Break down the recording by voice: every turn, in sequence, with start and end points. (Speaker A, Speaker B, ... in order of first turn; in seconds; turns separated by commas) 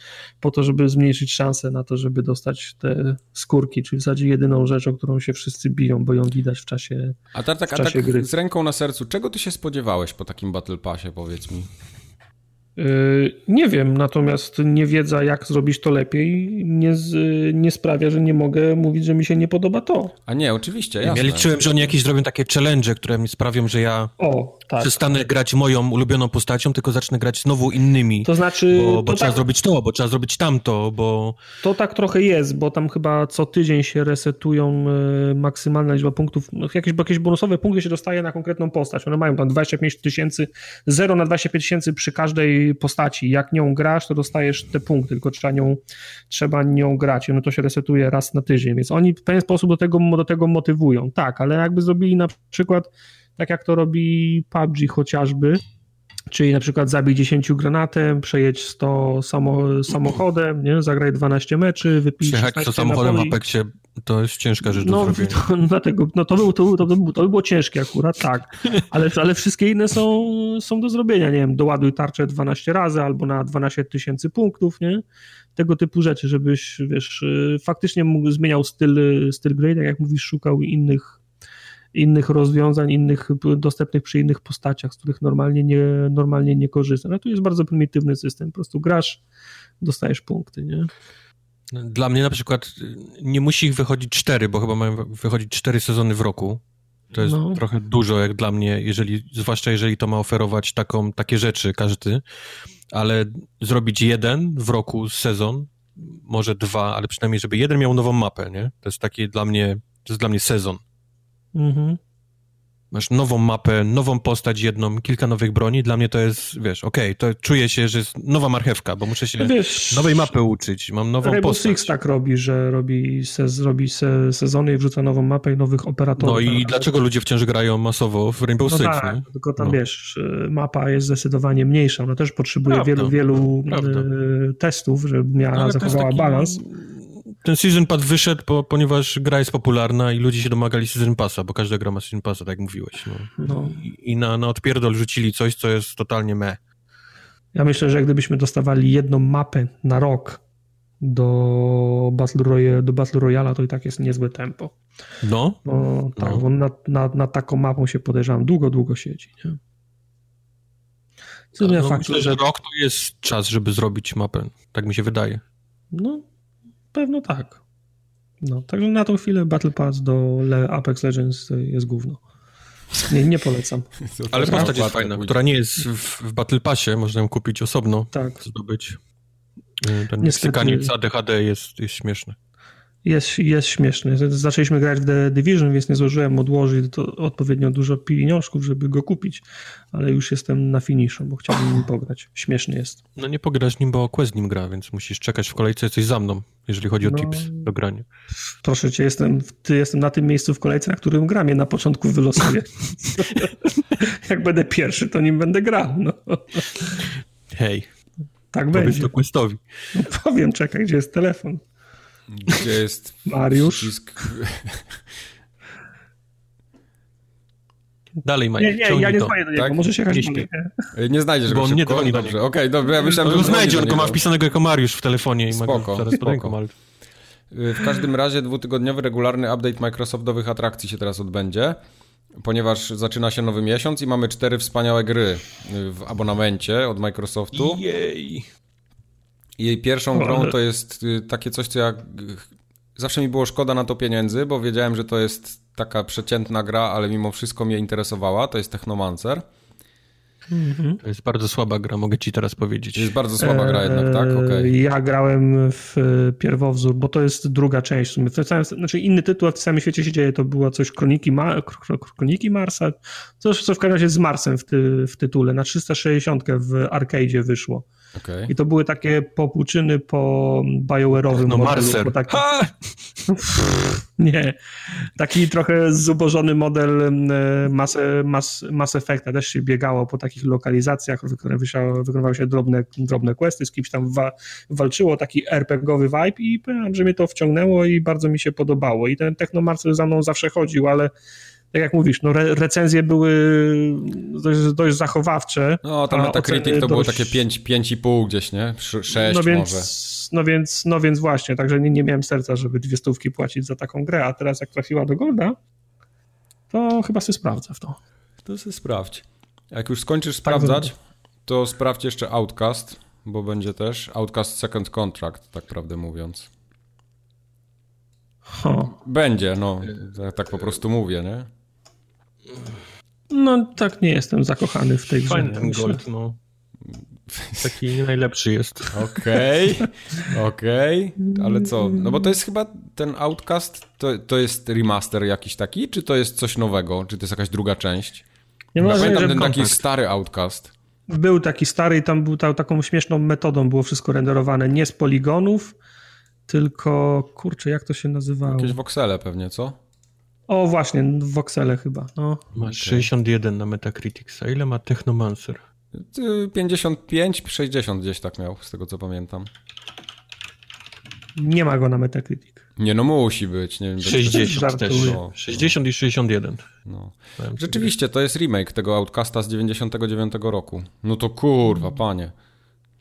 Speaker A: 0.4-7.2, Speaker B: 7.3-11.7, Speaker A: 7.7-8.3, Speaker A: 12.8-20.1, Speaker B: 20.3-21.5, Speaker C: 21.0-24.1, Speaker A: 24.2-25.2, Speaker C: 24.8-31.4, Speaker A: 28.2-29.4, Speaker A: 31.6-55.6, Speaker A: 56.3-63.4, Speaker C: 62.2-65.4, Speaker A: 64.7-75.0, Speaker A: 75.5-81.2, Speaker A: 81.9-89.2, Speaker A: 89.8-90.9, Speaker C: 91.7-96.6, Speaker C: 97.1-102.2, Speaker A: 97.2-97.6, Speaker C: 102.9-110.8, Speaker A: 111.5-112.0, Speaker C: 112.9-121.9, Speaker A: 119.4-120.3, Speaker A: 121.2-126.8, Speaker C: 126.2-129.8, Speaker A: 128.7-136.6, Speaker C: 132.7-133.1, Speaker C: 133.7-134.1, Speaker C: 135.5-146.6, Speaker A: 143.4-143.8, Speaker A: 147.5-150.4, Speaker A: 151.0-154.7, Speaker C: 155.2-155.6, Speaker A: 155.7-159.6, Speaker C: 156.2-156.4, Speaker A: 161.5-162.4, Speaker C: 161.6-165.4, Speaker A: 165.9-166.2, Speaker A: 166.9-167.6, Speaker A: 168.4-172.2, Speaker A: 173.0-174.7, Speaker B: 174.1-175.4, Speaker C: 174.3-179.0, Speaker A: 178.1-178.4, Speaker C: 179.8-182.3, Speaker A: 180.2-180.9, Speaker A: 183.0-193.0, Speaker C: 193.2-198.1, Speaker A: 197.0-197.7, Speaker A: 198.6-207.1, Speaker C: 207.5-207.9, Speaker A: 208.5-209.1, Speaker C: 208.7-209.6, Speaker A: 209.9-211.6, Speaker B: 212.3-215.0, Speaker A: 213.2-213.9, Speaker C: 218.2-219.4, Speaker A: 218.6-220.9, Speaker C: 220.1-220.5, Speaker B: 220.9-224.2, Speaker C: 221.5-222.4, Speaker C: 223.0-226.7, Speaker B: 225.5-226.6, Speaker B: 227.5-231.8, Speaker B: 232.3-237.8, Speaker C: 237.5-238.4, Speaker B: 239.6-249.4, Speaker A: 240.1-240.5, Speaker A: 250.5-251.0, Speaker C: 251.0-253.1, Speaker B: 252.9-254.7, Speaker A: 253.4-267.9, Speaker B: 268.1-268.5, Speaker A: 268.5-272.6, Speaker C: 271.4-272.7, Speaker A: 273.3-291.1, Speaker A: 291.7-297.4, Speaker B: 295.8-299.9, Speaker A: 299.1-305.6, Speaker A: 306.7-308.0, Speaker B: 308.4-310.9, Speaker A: 310.4-310.9, Speaker B: 311.4-316.5, Speaker A: 318.5-318.9, Speaker B: 319.0-321.5, Speaker A: 323.3-326.0, Speaker C: 325.2-326.4, Speaker B: 327.3-327.7, Speaker C: 327.6-329.1, Speaker B: 328.9-338.2, Speaker A: 331.3-332.2, Speaker A: 338.7-339.7, Speaker C: 338.8-339.8, Speaker B: 338.8-340.7, Speaker A: 341.1-345.7, Speaker A: 346.5-348.8, Speaker B: 348.5-349.8, Speaker A: 350.5-352.5, Speaker C: 352.5-355.6, Speaker B: 352.6-353.1, Speaker B: 355.9-359.5, Speaker A: 361.4-362.6, Speaker B: 362.8-365.7, Speaker C: 364.0-366.6, Speaker A: 364.1-365.2, Speaker B: 366.8-372.3, Speaker C: 367.4-367.9